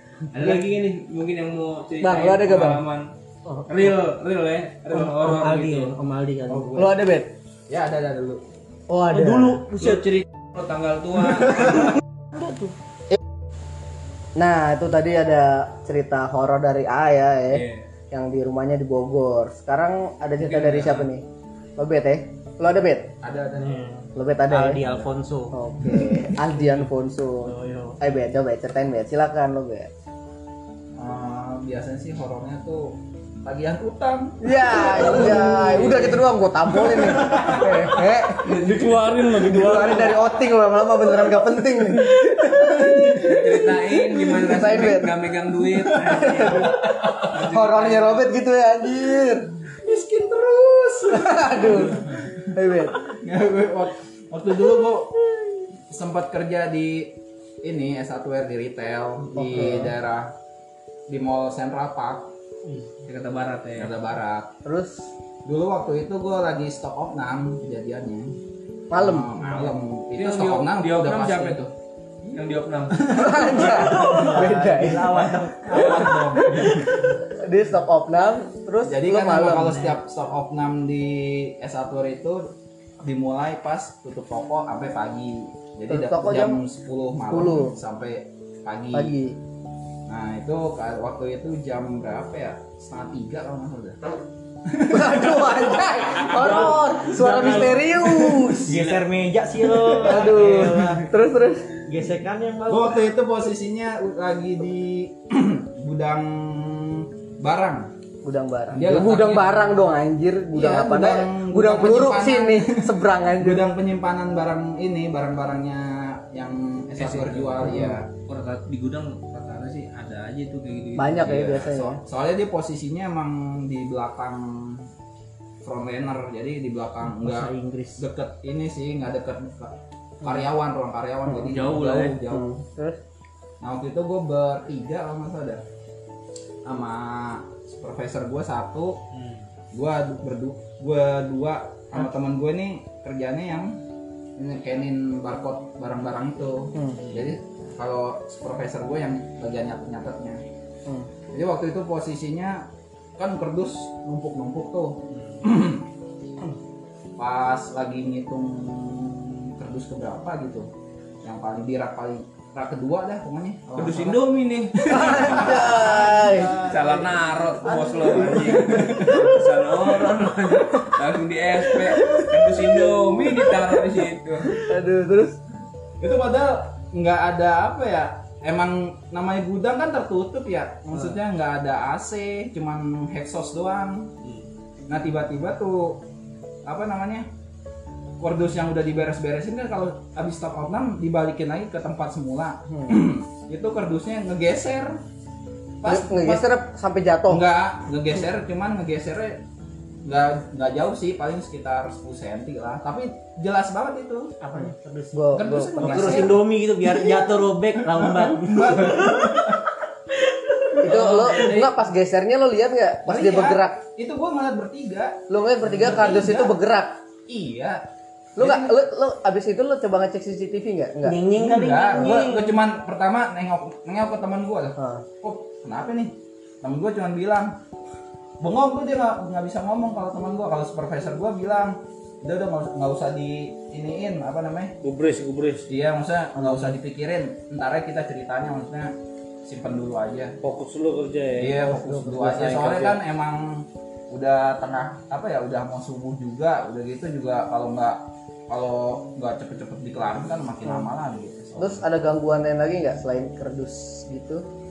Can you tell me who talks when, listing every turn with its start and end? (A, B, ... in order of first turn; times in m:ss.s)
0:00.3-0:03.1 A
0:02.0-0:02.8 B
0:03.5-0:03.9 C
0:03.6-0:06.0 A
0:04.9-0:06.9 C
0:06.5-0:06.9 D
0:06.7-0:07.3 B
0:07.7-0:08.4 D
0:08.9-0:09.6 B
0:09.1-0:10.1 C
0:09.6-0:11.9 A
0:12.3-0:12.7 C
0:14.4-0:21.2 B
0:17.5-0:17.8 A
0:20.4-0:21.1 A
0:21.8-0:23.1 B
0:23.2-0:23.9 D
0:23.6-0:25.6 C
0:24.1-0:24.8 B
0:25.5-0:29.9 B
0:27.4-0:28.0 C
0:31.0-0:37.9 D
0:34.4-0:45.2 B
0:38.4-0:40.2 E
0:43.2-0:48.3 A
0:46.0-0:49.5 B
0:49.7-0:52.5 D
0:51.1-0:53.0 B
0:53.0-1:00.3 D
0:59.3-1:00.0 B
1:01.1-1:02.3 D
1:03.0-1:03.9 A
1:03.8-1:04.5 D
1:04.6-1:05.1 B
1:05.4-1:08.3 D
1:08.9-1:09.4 B
1:08.9-1:11.7 D
1:10.1-1:11.6 A
1:12.3-1:13.2 A
1:12.9-1:17.0 D
1:13.1-1:15.3 B
1:13.7-1:16.4 C
1:17.4-1:20.0 B
1:18.8-1:29.1 D
1:25.9-1:26.6 B
1:27.3-1:27.8 B
1:28.9-1:29.4 B
1:30.1-1:34.0 D
1:34.7-1:38.1 D
1:34.9-1:38.8 B
1:37.1-1:37.8 A
1:38.5-1:41.1 C
1:39.7-1:40.8 D
1:40.0-1:41.7 B
1:41.9-1:43.0 C
1:42.7-1:47.9 D
1:48.2-1:53.7 B
1:48.7-1:49.7 D
1:50.5-1:58.1 D
1:57.0-2:01.7 A
1:57.6-1:58.0 B
2:01.0-2:02.0 B
2:01.3-2:04.8 D
2:05.6-2:12.6 D
2:07.1-2:08.0 C
2:11.2-2:11.6 B
2:11.4-2:12.2 A
2:12.3-2:13.0 B
2:13.6-2:15.6 D
2:16.6-2:19.0 D
2:19.1-2:19.4 A
2:19.7-2:23.8 D
2:24.4-2:30.4 D
2:26.7-2:27.0 B
2:31.3-2:35.9 D
2:37.2-2:40.7 D
2:41.2-2:44.2 D
2:43.8-2:54.6 A
2:44.8-2:49.2 D
2:44.8-2:46.6 B
2:47.7-2:49.1 B
2:54.6-2:55.4 B
2:56.0-3:04.1 D
3:04.9-3:06.0 D
3:06.6-3:07.3 D
3:08.2-3:15.0 D
3:12.7-3:13.0 B
3:15.8-3:16.4 D
3:15.8-3:17.4 B
3:17.3-3:19.4 D
3:20.0-3:24.3 D
3:24.4-3:29.4 C
3:25.1-3:26.4 B
3:25.3-3:26.9 D
3:27.8-3:29.7 D
3:30.8-3:33.8 B
3:30.8-3:31.7 A
3:33.1-3:36.5 D
3:35.3-3:37.0 B
3:37.3-3:37.8 D
3:38.4-3:38.7 D
3:38.4-3:41.3 B
3:41.0-3:42.6 C
3:41.3-3:47.6 D
3:44.8-3:45.0 B
3:48.4-3:54.7 D
3:54.8-3:55.7 E
3:55.7-4:00.4 D
3:56.4-3:56.7 B
4:00.4-4:01.6 E
4:01.4-4:11.8 D
4:01.6-4:02.7 B
4:02.2-4:03.0 E
4:11.6-4:14.4 B